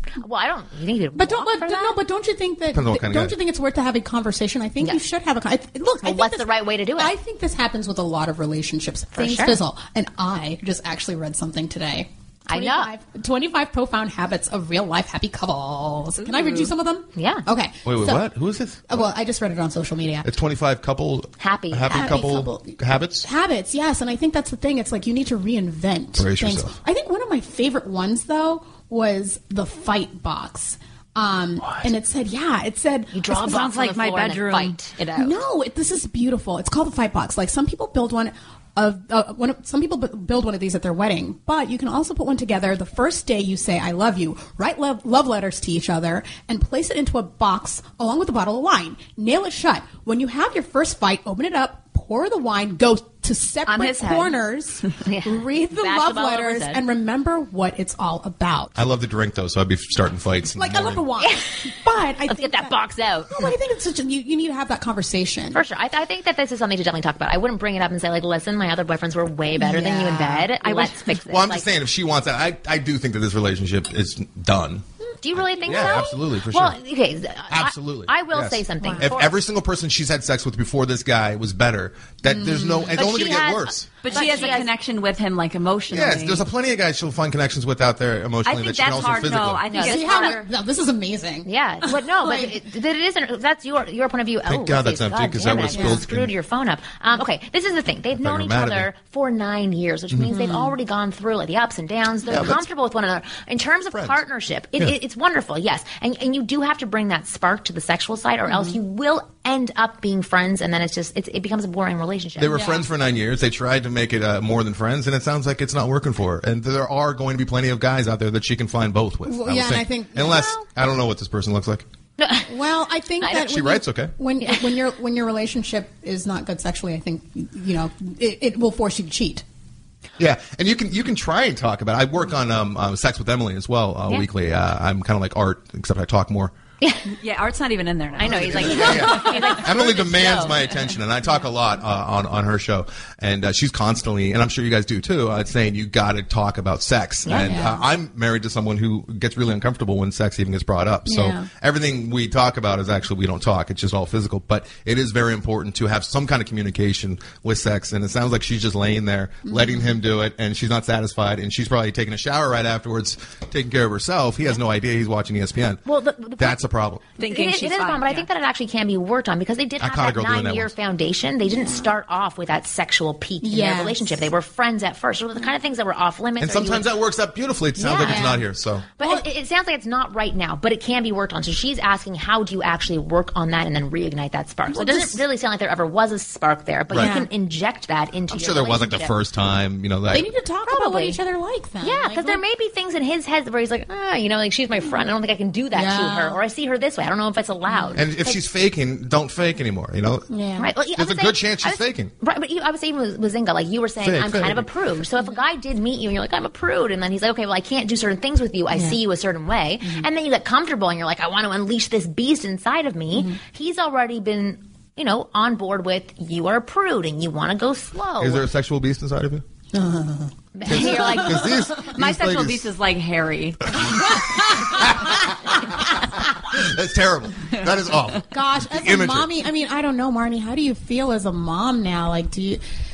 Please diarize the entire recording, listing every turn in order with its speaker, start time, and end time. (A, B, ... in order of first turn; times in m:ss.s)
0:00.2-0:02.0 A
0:01.1-0:18.3 B
0:02.7-0:03.3 C
0:06.0-0:07.1 A
0:09.1-0:09.6 A
0:12.5-0:12.9 A
0:17.2-0:17.4 A
0:17.8-0:19.1 C
0:18.9-0:20.3 B
0:20.2-0:23.2 C
0:21.4-0:22.2 A
0:21.9-0:33.6 B
0:26.2-0:26.7 C
0:33.1-0:35.4 A
0:33.3-0:34.9 D
0:35.2-0:58.8 B
0:53.6-0:54.4 D
0:55.0-0:56.8 A
0:58.8-1:01.0 C
1:00.5-1:02.8 B
1:01.2-1:01.7 A
1:02.2-1:03.5 A
1:03.3-1:05.6 B
1:05.5-1:11.7 A
1:09.6-1:10.5 B
1:10.6-1:11.0 D
1:11.3-1:14.8 C
1:15.2-1:19.4 A
1:15.4-1:16.8 C
1:15.7-1:16.0 B
1:17.5-1:23.9 C
1:18.8-1:19.1 B
1:22.2-1:23.0 B
1:22.9-1:24.7 A
1:24.0-1:26.4 D
1:24.1-1:24.7 B
1:25.9-1:29.6 C
1:28.4-1:30.5 D
1:29.7-1:30.4 A
1:29.7-1:32.5 B
1:31.4-1:52.8 A
1:34.4-1:36.3 C
1:35.7-1:36.0 B
1:38.2-1:38.9 C
1:40.3-1:40.7 B
1:42.3-1:42.6 C
1:43.9-1:44.2 C
1:48.4-1:48.7 B
1:52.4-2:01.8 C
1:52.5-1:52.8 B
1:59.2-2:00.6 B
2:02.2-2:02.5 A
2:02.5-2:09.4 B
2:03.3-2:04.1 C
2:10.2-2:16.5 C
2:16.8-2:17.1 A
2:17.2-2:18.8 D
2:18.2-2:20.7 A
2:18.2-2:45.8 C
2:18.8-2:19.0 B
2:27.2-2:27.7 A
2:27.4-2:27.8 B
2:31.0-2:31.5 B
2:39.4-2:39.9 B
2:45.8-2:46.6 A
2:46.4-2:47.0 C
2:47.2-2:48.3 D
2:47.2-2:56.9 A
2:49.8-2:50.7 C
2:51.6-2:51.8 B
2:53.4-2:54.1 B
2:56.4-2:58.8 C
2:57.8-2:58.4 A
2:57.8-2:58.5 B
2:59.0-2:59.3 B
2:59.0-3:09.1 A
3:04.7-3:05.2 B
3:06.9-3:07.3 B
3:08.3-3:10.3 C
3:10.1-3:12.4 B
3:10.6-3:11.2 A
3:11.8-3:18.0 A
3:15.7-3:16.4 B
3:17.7-3:18.4 B
3:17.9-3:20.3 C
3:20.3-3:20.7 B
3:20.6-3:38.4 A
3:20.9-3:22.1 C
3:24.0-3:24.7 C
3:28.7-3:29.0 B
3:38.2-3:39.4 C
3:39.7-3:41.9 B
3:40.5-3:41.5 A
3:40.7-3:42.7 C
3:41.8-3:43.7 D
3:43.9-3:45.0 B
3:44.8-3:45.6 C
3:46.5-3:49.3 C
3:48.3-3:52.6 B